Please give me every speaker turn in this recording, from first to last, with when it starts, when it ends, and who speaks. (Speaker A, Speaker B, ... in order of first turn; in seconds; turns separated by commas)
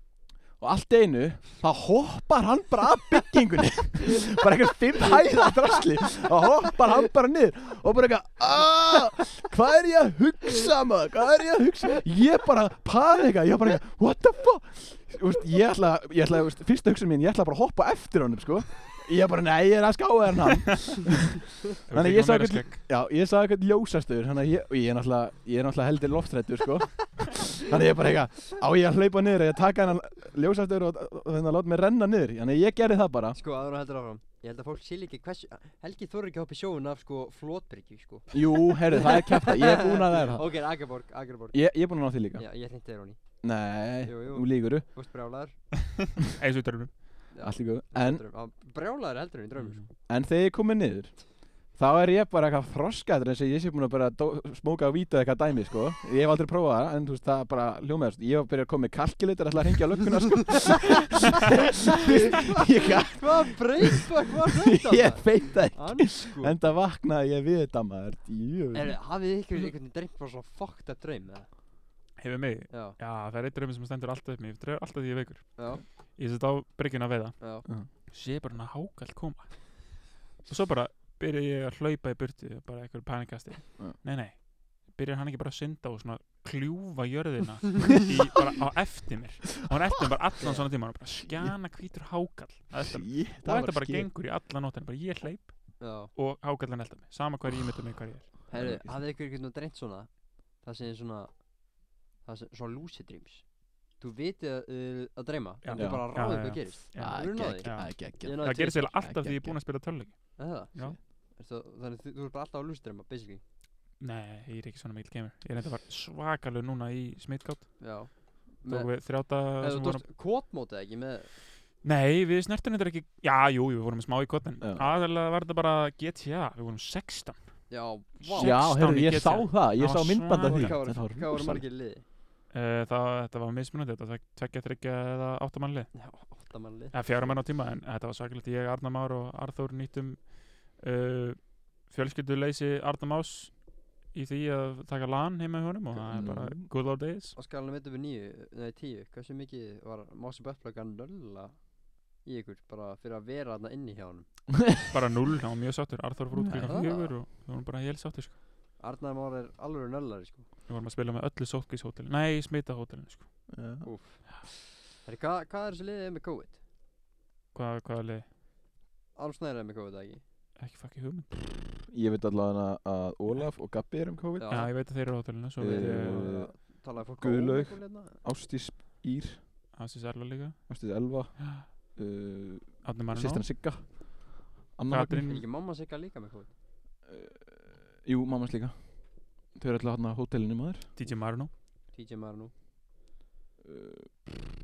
Speaker A: 0.6-33.4, Speaker B: 21.9-22.8, Speaker C: 33.3-41.8, Speaker A: 38.3-40.5, Speaker A: 41.5-42.4, Speaker C: 42.3-43.2, Speaker A: 43.4-44.9, Speaker C: 44.0-45.7, Speaker B: 46.2-47.0, Speaker C: 47.3-49.8, Speaker A: 47.4-48.2, Speaker B: 49.6-49.9, Speaker A: 50.0-64.1, Speaker C: 63.0-66.6, Speaker A: 64.6-69.0, Speaker C: 68.7-71.5, Speaker B: 72.2-98.4, Speaker C: 72.7-73.0, Speaker C: 75.6-75.8, Speaker C: 77.4-77.6, Speaker C: 90.4-90.7, Speaker A: 91.2-91.5, Speaker A: 92.8-94.1, Speaker C: 95.8-96.1, Speaker A: 98.5-99.0, Speaker C: 98.5-101.6, Speaker C: 102.2-108.9, Speaker B: 105.6-111.0, Speaker A: 105.8-109.6, Speaker C: 110.4-113.4, Speaker B: 114.0-120.0, Speaker C: 117.8-121.3, Speaker B: 121.8-130.8, Speaker A: 124.6-124.9, Speaker C: 127.7-128.6, Speaker A: 128.4-131.6, Speaker C: 130.4-132.0, Speaker B: 132.5-136.0, Speaker C: 135.9-137.4, Speaker B: 136.9-147.3, Speaker A: 145.9-146.7, Speaker C: 147.3-154.3, Speaker B: 154.9-158.4, Speaker A: 156.3-156.8, Speaker C: 156.6-157.1, Speaker C: 158.8-160.5, Speaker B: 160.7-163.5, Speaker A: 163.5-163.9, Speaker C: 163.8-166.6, Speaker B: 167.5-168.3, Speaker C: 169.2-170.2, Speaker B: 170.6-171.4, Speaker A: 171.9-174.9, Speaker C: 174.3-178.2, Speaker B: 174.5-176.3, Speaker A: 175.6-179.4, Speaker B: 179.7-181.7, Speaker A: 180.7-185.3, Speaker B: 182.8-183.5, Speaker B: 184.9-185.4, Speaker C: 185.2-186.5, Speaker A: 187.1-190.9, Speaker B: 190.9-191.5, Speaker C: 191.9-192.5, Speaker A: 193.6-194.5